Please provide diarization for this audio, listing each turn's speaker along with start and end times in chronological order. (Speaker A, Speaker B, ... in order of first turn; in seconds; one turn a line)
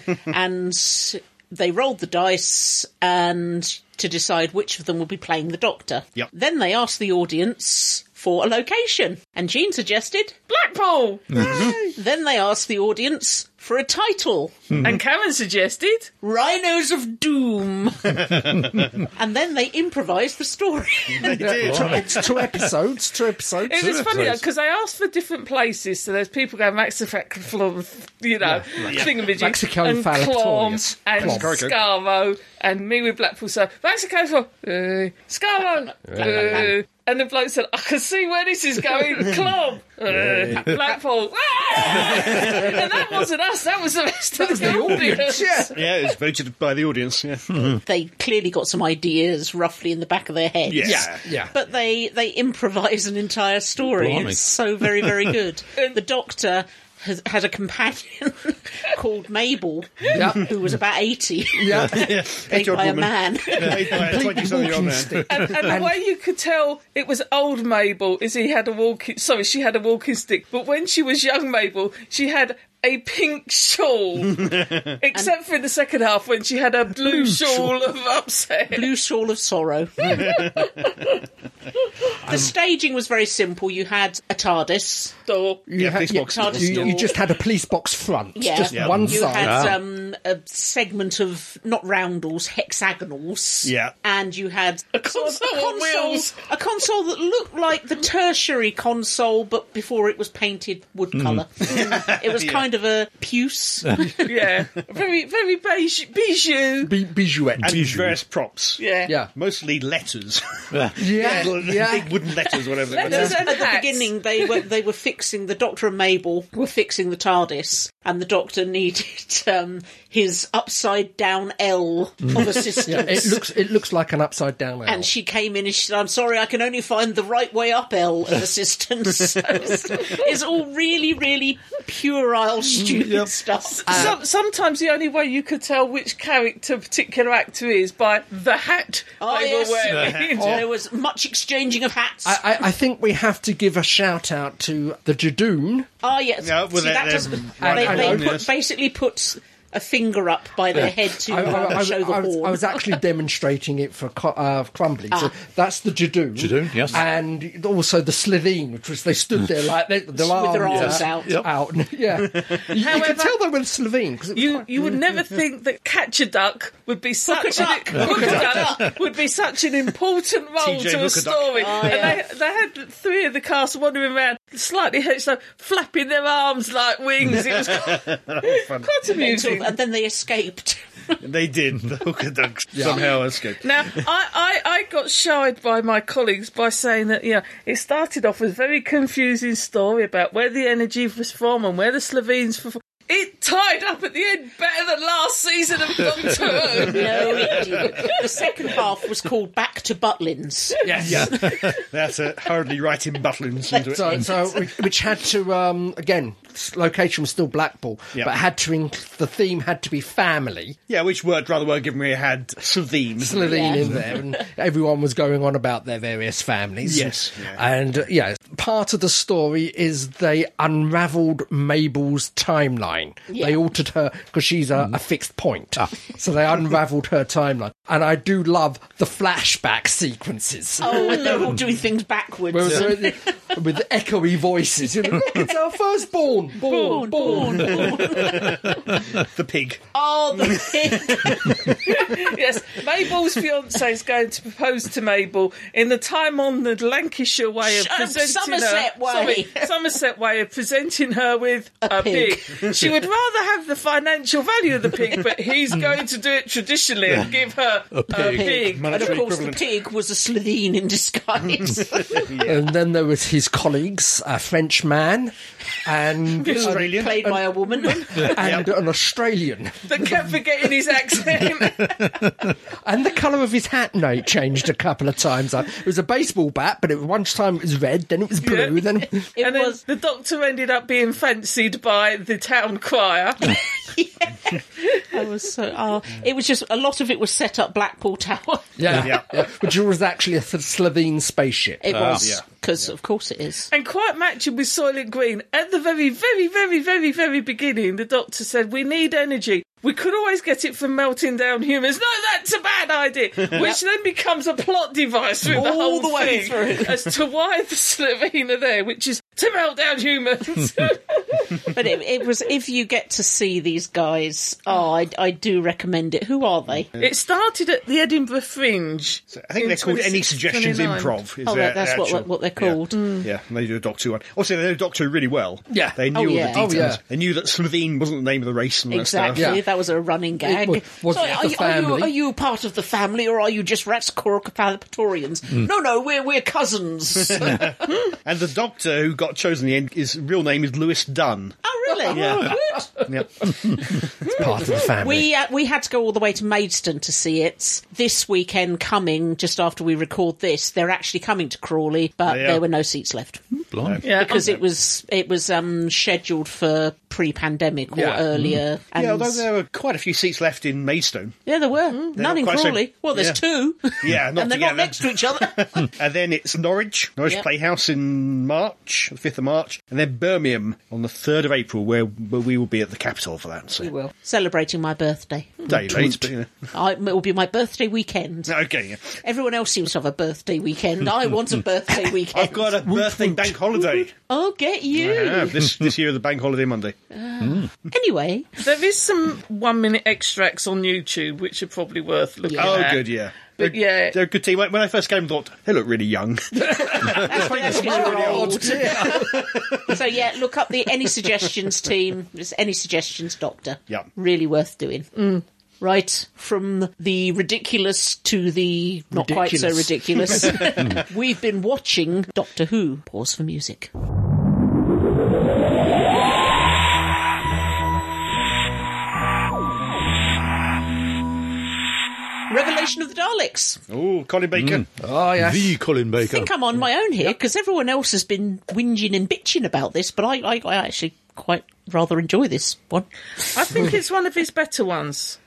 Speaker A: 0.3-10.3
Speaker B: 10.5-11.6
Speaker C: 11.4-11.8
Speaker A: 11.4-14.9
Speaker D: 11.4-11.8
Speaker E: 14.7-15.0
Speaker B: 14.8-16.1
Speaker A: 16.2-18.3
Speaker A: 19.1-21.4
Speaker C: 21.1-22.3
Speaker D: 21.2-23.9
Speaker E: 21.6-22.0
Speaker B: 23.7-45.8
Speaker E: 23.8-24.4
Speaker D: 28.4-31.6
Speaker C: 28.8-29.1
Speaker C: 31.2-31.8
Speaker D: 36.1-36.3
Speaker A: 36.1-36.7
Speaker C: 42.0-42.7
Speaker D: 44.4-45.8
Speaker C: 45.7-47.7
Speaker A: 47.8-64.0
Speaker C: 50.7-51.2
Speaker D: 50.8-51.5
Speaker E: 54.0-54.4
Speaker E: 54.9-55.3
Speaker D: 60.1-60.5
Speaker D: 61.5-62.1
Speaker C: 61.7-65.2
Speaker B: 63.5-63.8
Speaker D: 63.9-66.0
Speaker B: 65.3-78.9
Speaker D: 77.2-77.6
Speaker A: 78.7-80.3
Speaker B: 80.0-81.2
Speaker C: 80.2-80.7
Speaker D: 82.2-82.5
Speaker A: 82.2-85.1
Speaker B: 85.3-85.7
Speaker D: 85.7-89.8
Speaker C: 85.8-87.1
Speaker A: 86.1-87.1
Speaker A: 88.3-104.3
Speaker C: 88.7-89.1
Speaker E: 89.0-89.8
Speaker C: 93.6-93.9
Speaker B: 94.9-96.4
Speaker E: 101.1-101.5
Speaker C: 101.6-102.7
Speaker B: 104.2-106.9
Speaker D: 106.8-107.8
Speaker E: 107.6-108.2
Speaker C: 107.6-113.5
Speaker B: 108.8-109.1
Speaker E: 110.7-111.1
Speaker D: 111.0-112.5
Speaker B: 112.8-114.6
Speaker A: 113.0-123.4
Speaker D: 113.0-113.4
Speaker D: 122.8-125.1
Speaker A: 124.8-134.2
Speaker B: 129.5-130.3
Speaker E: 132.8-133.3
Speaker B: 133.7-140.6
Speaker D: 133.9-134.2
Speaker A: 139.2-142.4
Speaker E: 139.9-140.1
Speaker D: 142.2-145.9
Speaker A: 146.0-153.0
Speaker C: 146.4-148.5
Speaker D: 147.6-148.3
Speaker D: 151.2-164.9
Speaker E: 156.4-157.0
Speaker A: 160.2-161.4
Speaker E: 160.7-161.5
Speaker C: 162.4-162.6
Speaker B: 162.7-163.4
Speaker B: 164.3-179.7
Speaker A: 167.2-168.9
Speaker E: 167.9-168.8
Speaker C: 170.6-172.1
Speaker A: 171.6-172.2
Speaker C: 177.6-178.9
Speaker A: 179.1-181.2
Speaker C: 181.2-184.0
Speaker D: 182.7-183.1
Speaker B: 183.6-198.2
Speaker A: 196.8-201.5
Speaker D: 200.8-201.4
Speaker C: 201.1-204.6
Speaker D: 203.9-210.8
Speaker C: 210.9-213.8
Speaker D: 213.2-231.6
Speaker A: 213.4-213.9
Speaker C: 216.8-217.6
Speaker A: 223.3-223.6
Speaker A: 230.8-233.3
Speaker D: 232.5-238.3
Speaker B: 236.6-237.8
Speaker A: 236.7-238.8
Speaker C: 239.1-239.8
Speaker A: 239.9-242.1
Speaker C: 240.4-241.7
Speaker B: 241.8-259.2
Speaker A: 247.6-249.7
Speaker A: 251.8-252.8
Speaker E: 257.9-258.5
Speaker A: 258.1-262.3
Speaker C: 258.6-259.6
Speaker C: 262.1-262.6
Speaker D: 262.3-265.3
Speaker D: 265.8-270.3
Speaker C: 266.5-267.3
Speaker A: 266.5-268.3
Speaker B: 267.9-268.2
Speaker C: 268.3-268.7
Speaker B: 269.9-272.1
Speaker D: 272.8-279.3
Speaker B: 278.4-283.6
Speaker A: 279.4-279.8
Speaker A: 283.9-289.1
Speaker D: 288.8-292.2
Speaker C: 289.0-289.2
Speaker A: 291.8-293.7
Speaker E: 291.9-292.2
Speaker C: 292.2-292.9
Speaker B: 293.7-311.7
Speaker A: 305.5-307.0
Speaker A: 311.7-316.9
Speaker C: 316.8-317.1
Speaker B: 317.0-321.1
Speaker C: 319.3-329.6
Speaker A: 321.4-323.1
Speaker B: 322.9-323.3
Speaker D: 325.7-327.0
Speaker A: 326.1-326.9
Speaker A: 328.9-337.9
Speaker D: 329.3-329.6
Speaker D: 330.4-332.1
Speaker C: 337.4-341.6
Speaker A: 341.6-343.1
Speaker D: 342.1-342.6
Speaker C: 342.1-344.3
Speaker D: 344.2-345.3
Speaker A: 344.3-353.4
Speaker C: 352.2-352.6
Speaker E: 353.5-354.0
Speaker C: 353.8-354.6
Speaker B: 354.0-354.5
Speaker A: 354.1-359.4
Speaker D: 357.9-358.2
Speaker E: 358.3-358.6
Speaker C: 358.9-361.4
Speaker A: 361.4-365.9
Speaker C: 362.1-363.4
Speaker C: 364.0-373.9
Speaker A: 373.8-375.7
Speaker C: 375.7-376.7
Speaker A: 376.7-378.6
Speaker C: 378.4-379.1
Speaker A: 379.2-382.9
Speaker C: 382.3-384.1
Speaker D: 382.9-383.6
Speaker A: 383.7-385.7
Speaker C: 384.9-386.9
Speaker A: 387.1-388.5
Speaker E: 387.4-387.7
Speaker B: 388.6-394.2
Speaker A: 392.4-392.9
Speaker C: 392.5-399.9
Speaker D: 396.5-399.9
Speaker A: 397.0-413.9
Speaker D: 409.1-410.7
Speaker A: 422.5-423.8
Speaker C: 423.9-424.9
Speaker E: 424.6-426.5
Speaker D: 425.0-425.8
Speaker A: 426.2-433.9
Speaker B: 433.5-435.4